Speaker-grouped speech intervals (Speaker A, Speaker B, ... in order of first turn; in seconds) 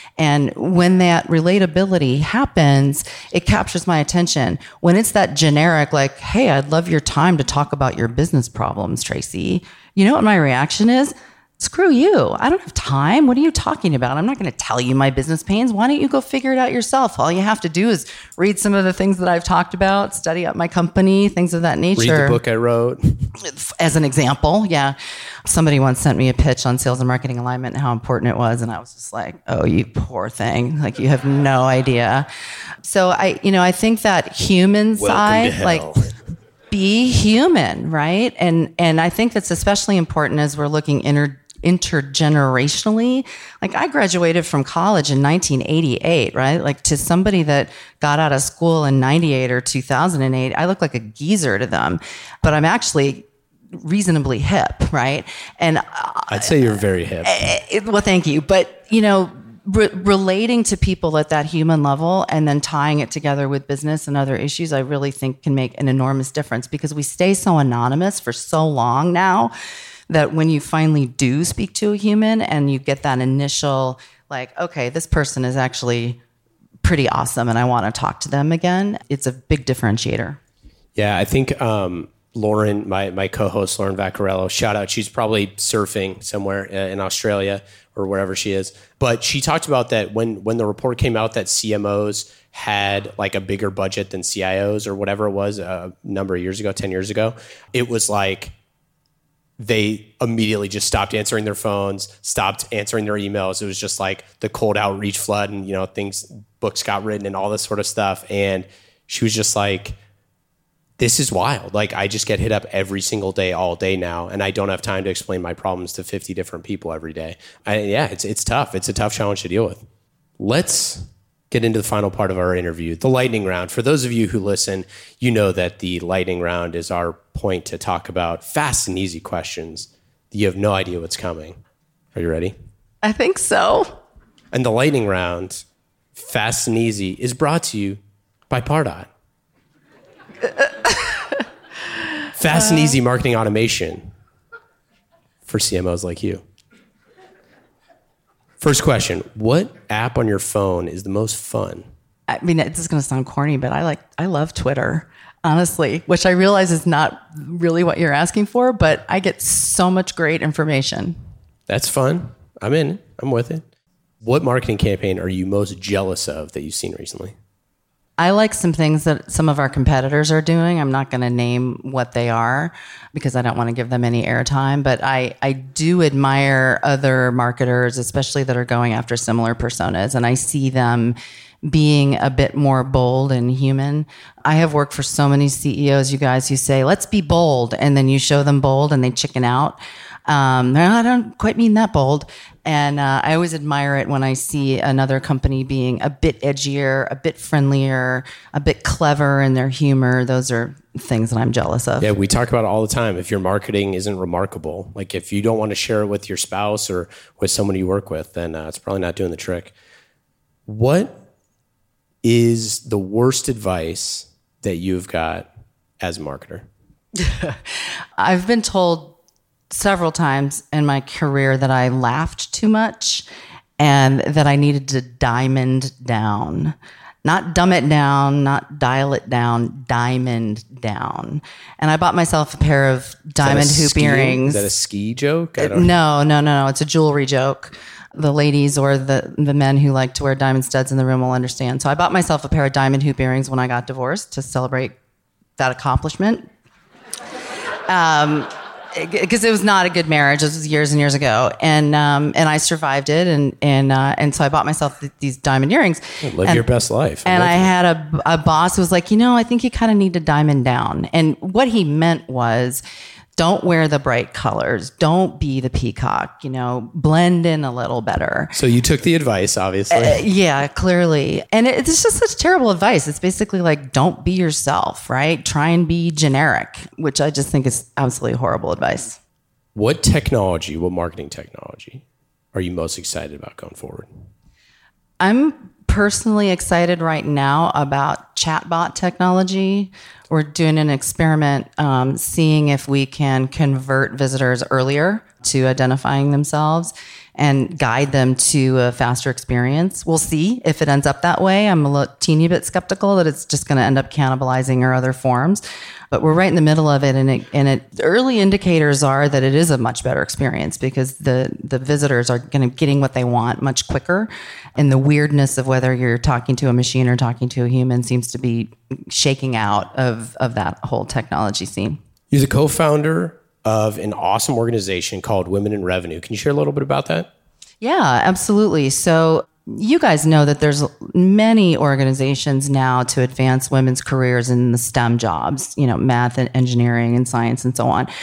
Speaker A: 0.2-22.4, 23.4-32.3, 32.8-35.9, 36.7-56.6, 57.2-69.5, 70.1-76.2, 76.8-80.4, 133.0-134.0, 140.9-141.2, 142.5-142.9, 152.3-161.2, 168.2-202.1, 217.2-219.2, 219.7-223.3, 223.8-234.7, 235.6-245.0, 245.6-246.5, 247.9-256.7, 257.2-262.8, 263.4-268.5, 269.9-279.2, 285.2-322.0, 327.8-338.1
Speaker B: 22.0-23.3, 35.0-36.1, 56.3-57.5, 81.0-98.5, 99.6-110.0, 111.0-119.8, 120.4-131.6, 132.1-132.6, 134.5-135.6, 136.2-139.1, 142.3-144.1, 145.5-146.4, 148.6-151.9, 161.7-163.7, 164.2-167.3, 202.0-209.7, 210.7-211.2, 212.2-215.5, 216.0-216.7, 233.4-235.9, 256.2-257.7, 268.5-270.2, 279.8-284.1, 322.3-327.3